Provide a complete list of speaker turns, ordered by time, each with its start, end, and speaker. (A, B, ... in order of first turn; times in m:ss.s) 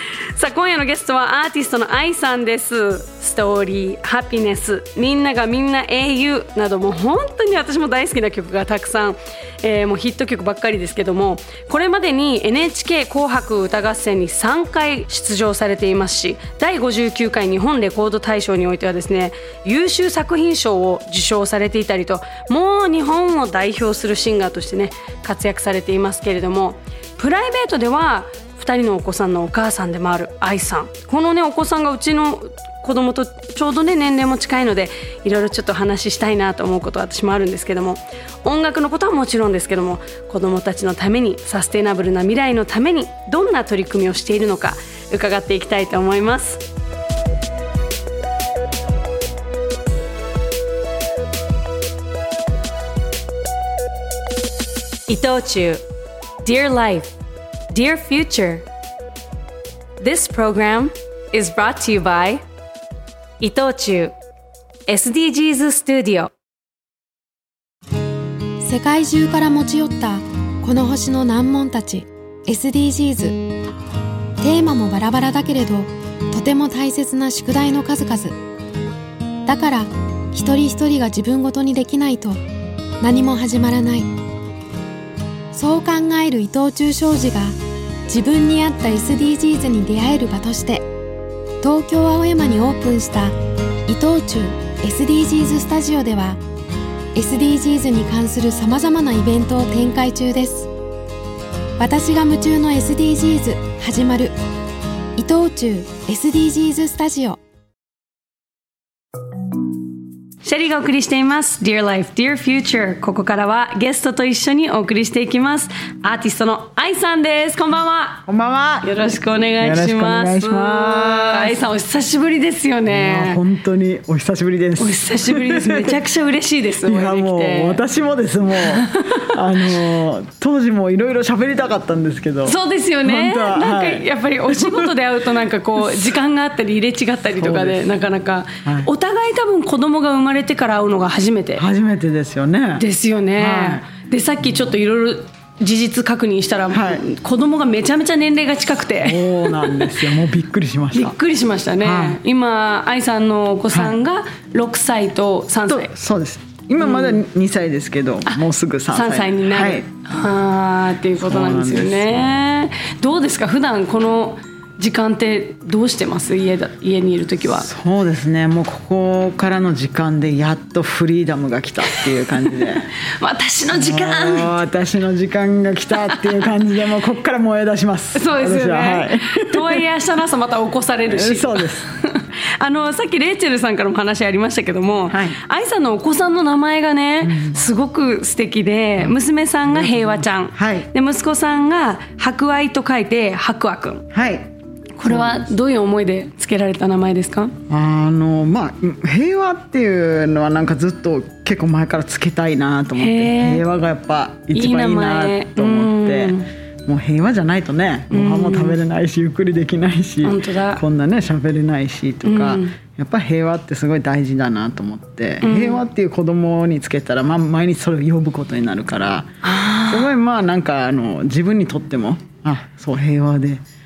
0:00.3-0:46.6 A
0:55.1-0:55.8 A
0:56.4-0:57.1 A
0:57.7-0:58.6 A
1:00.0-1:02.4 A
1:03.4-1:04.2 A
1:04.9-1:06.3 A
1:08.6-1:13.4 B
1:14.4-1:18.4 B
1:19.4-1:22.4 B
1:23.0-1:24.1 B
1:25.5-1:27.6 B
1:28.1-1:30.9 B
1:31.6-1:33.3 B
1:33.9-1:36.4 B
1:37.2-1:40.7 B
1:41.8-1:44.3 B
1:45.2-1:47.4 B
1:50.4-1:58.2 A
1:58.3-1:59.0 C
1:58.8-2:03.4 A
1:59.6-2:01.6 C
2:02.9-2:06.0 C
2:04.8-2:07.8 A
2:06.8-2:14.9 C
2:08.6-2:09.3 A
2:12.5-2:21.6 A
2:15.8-2:16.1 C
2:17.2-2:18.0 C
2:18.6-2:18.9 C
2:21.6-2:22.8 C
2:22.8-2:30.0 A
2:23.4-2:23.9 C
2:26.7-2:27.0 C
2:29.0-2:31.2 C
2:30.9-2:35.9 A
2:31.8-2:32.2 C
2:33.7-2:34.0 C
2:35.7-2:39.9 C
2:36.8-2:37.2 A
2:38.3-2:47.7 A
2:41.2-2:42.2 C
2:47.5-2:52.9 C
2:52.5-2:54.6 A
2:53.7-2:59.8 C
2:56.1-2:56.3 A
2:58.1-3:14.0 A
3:01.1-3:01.9 C
3:05.1-3:05.4 C
3:07.2-3:07.6 C
3:09.0-3:10.9 C
3:14.1-3:14.5 C
3:15.0-3:17.6 A
3:15.0-3:15.5 C
3:17.7-3:43.6 C
3:23.0-3:23.6 A
3:24.5-3:26.5 A
3:28.1-3:28.8 A
3:30.2-3:30.8 A
3:32.2-3:32.8 A
3:35.4-3:35.8 A
3:39.4-3:40.1 A